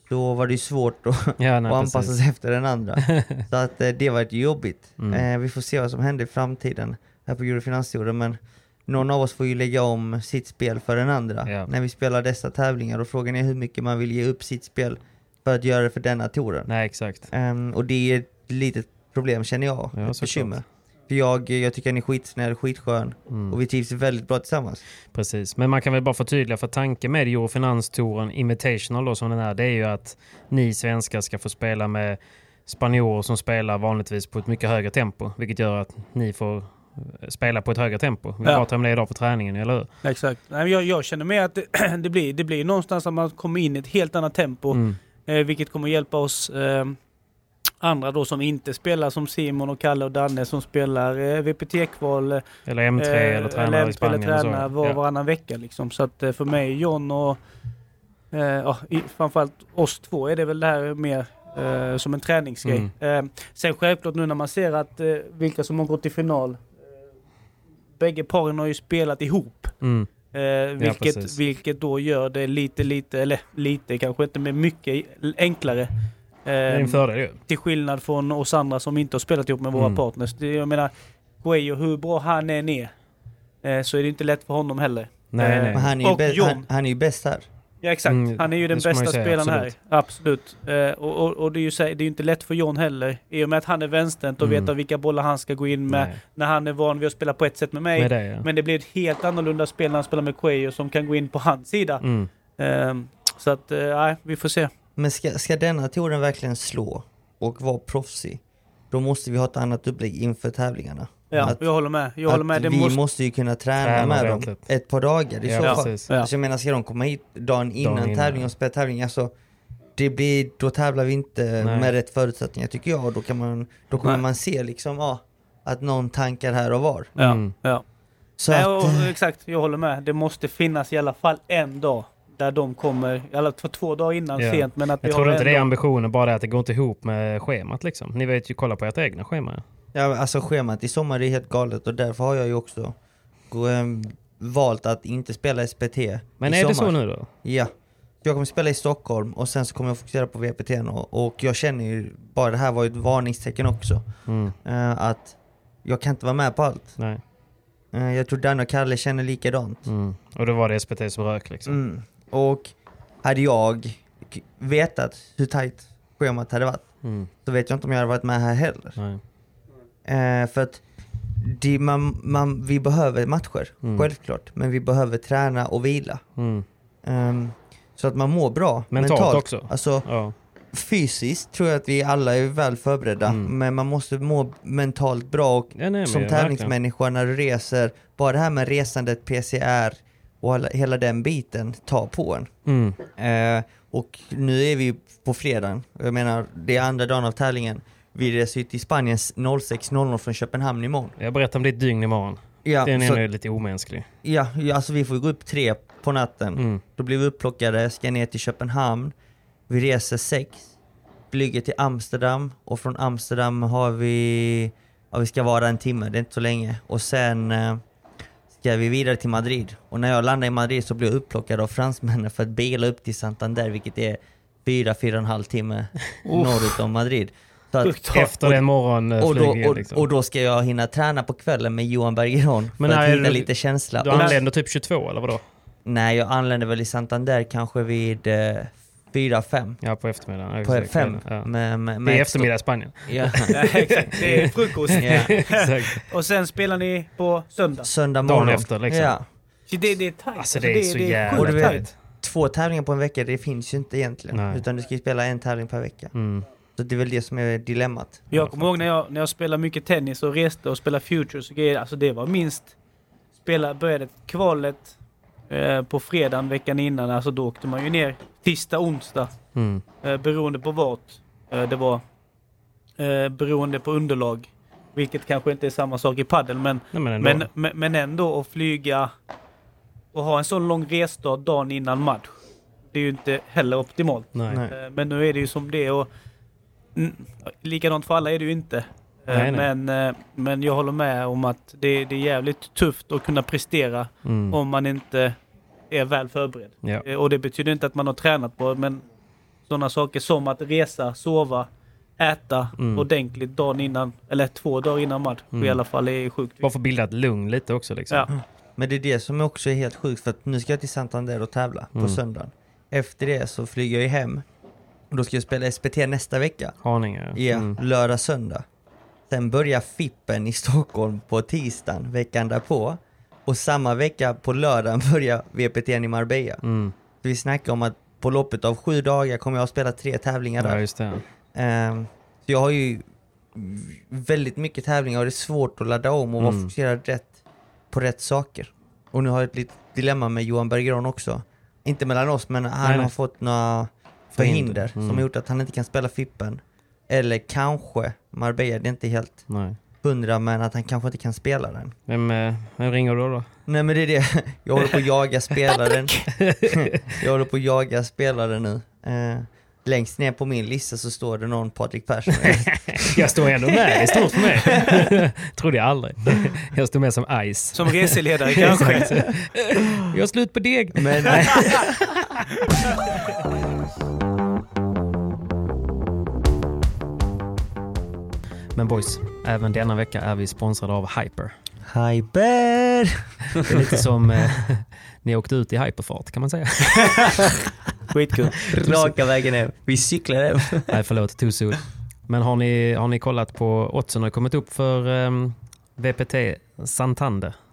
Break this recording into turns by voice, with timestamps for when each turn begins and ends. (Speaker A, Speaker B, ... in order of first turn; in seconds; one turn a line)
Speaker A: 0.1-16.7
Speaker B: 1.4-2.1
Speaker B: 3.1-3.4
Speaker B: 5.0-5.2
Speaker B: 16.7-17.3
Speaker A: 17.3-24.8
Speaker B: 20.0-20.6
Speaker B: 23.3-23.6
Speaker B: 25.1-39.9
Speaker C: 40.0-47.0
Speaker B: 44.7-45.0
Speaker C: 47.8-52.4
Speaker B: 52.6-55.0
Speaker C: 53.0-57.4
Speaker C: 58.3-66.7
Speaker B: 62.6-62.9
Speaker C: 68.0-69.7
Speaker B: 69.8-70.1
Speaker C: 70.3-75.9
Speaker B: 70.8-71.3
Speaker C: 76.4-80.9
Speaker B: 76.7-77.4
Speaker B: 79.7-80.0
Speaker C: 81.4-82.9
Speaker C: 83.6-86.6
Speaker B: 85.3-86.0
Speaker A: 85.7-87.5
Speaker C: 87.8-102.0
Speaker B: 88.1-89.7
Speaker B: 94.4-94.7
Speaker B: 95.9-96.2
Speaker B: 98.0-98.5
Speaker B: 102.0-102.3
Speaker C: 102.6-104.7
Speaker A: 105.0-119.3
Speaker C: 111.3-113.0
Speaker B: 113.8-114.7
Speaker B: 115.4-116.1
Speaker C: 115.6-116.3
Speaker B: 117.8-118.5
Speaker A: 120.0-127.1
Speaker B: 121.6-121.9
Speaker B: 127.2-127.5
Speaker C: 127.2-127.8
Speaker A: 128.4-129.1
Speaker C: 128.5-135.7
Speaker B: 134.4-139.6
Speaker A: 139.9-142.9
Speaker A: 143.5-147.7
Speaker B: 146.4-147.3
Speaker A: 148.2-154.1
Speaker B: 154.3-154.5
Speaker A: 154.6-157.0
Speaker A: 157.9-159.9
Speaker B: 159.8-161.8
Speaker A: 161.7-166.9
Speaker B: 167.0-167.3
Speaker A: 167.4-169.0
Speaker A: 170.0-170.8
Speaker A: 171.4-176.2
Speaker B: 173.8-174.1
Speaker B: 176.4-176.6
Speaker A: 177.0-180.1
Speaker B: 178.9-180.3
Speaker A: 180.7-192.5
Speaker B: 185.8-186.7
Speaker B: 192.7-193.0
Speaker A: 193.1-201.1
Speaker B: 201.2-204.1
Speaker A: 202.6-203.2
Speaker A: 204.2-209.1
Speaker B: 206.6-206.8
Speaker A: 209.7-210.7
Speaker A: 211.3-217.8
Speaker A: 218.5-228.6
Speaker C: 226.2-226.7
Speaker C: 227.8-228.3
Speaker B: 228.1-230.0
Speaker A: 229.2-234.4
Speaker B: 232.8-235.4
Speaker C: 234.1-234.4
Speaker A: 235.8-239.8
Speaker B: 239.8-241.5
Speaker A: 240.6-242.5
Speaker B: 242.0-246.1
Speaker A: 243.1-243.6
Speaker C: 243.5-247.9
Speaker A: 245.0-245.3
Speaker A: 247.8-249.2
Speaker B: 248.2-249.2
Speaker C: 249.7-251.8
Speaker B: 250.4-251.9
Speaker A: 251.3-256.1
Speaker B: 254.3-254.6
Speaker B: 256.1-256.4
Speaker A: 256.8-258.2
Speaker C: 258.3-262.7
Speaker B: 258.3-258.8
Speaker C: 263.4-264.9
Speaker C: 265.5-269.3
Speaker B: 269.5-269.8
Speaker C: 270.0-272.0
Speaker C: 273.0-279.1
Speaker B: 276.9-277.5
Speaker C: 280.1-282.4
Speaker C: 282.9-286.1
Speaker B: 284.3-284.6
Speaker A: 284.5-284.7
Speaker C: 286.9-295.4
Speaker B: 289.3-289.7
Speaker B: 294.2-294.6
Speaker C: 295.9-299.0
Speaker C: 299.7-301.7
Speaker C: 302.2-306.7
Speaker B: 302.8-303.1
Speaker B: 305.5-305.8
Speaker B: 306.6-308.3
Speaker A: 308.3-314.4
Speaker A: 315.1-316.7
Speaker B: 316.8-317.8
Speaker A: 317.3-318.6
Speaker A: 319.3-326.6
Speaker B: 326.6-326.9
Speaker A: 327.2-330.8
Speaker B: 330.6-331.2
Speaker A: 331.5-333.0
Speaker A: 333.5-337.3
Speaker B: 336.4-336.7
Speaker A: 337.9-349.4
Speaker B: 342.8-343.1
Speaker B: 344.3-345.2
Speaker B: 349.5-349.8
Speaker A: 350.0-351.9
Speaker B: 352.1-353.5
Speaker A: 353.7-363.3
Speaker B: 356.4-356.9
Speaker B: 362.4-373.2
Speaker C: 367.7-369.1
Speaker A: 370.9-371.8
Speaker B: 378.8-381.5
Speaker A: 381.9-383.1
Speaker B: 383.6-387.6
Speaker C: 387.1-387.4
Speaker C: 388.1-388.6
Speaker A: 388.7-390.9
Speaker B: 388.7-389.1
Speaker B: 390.9-397.5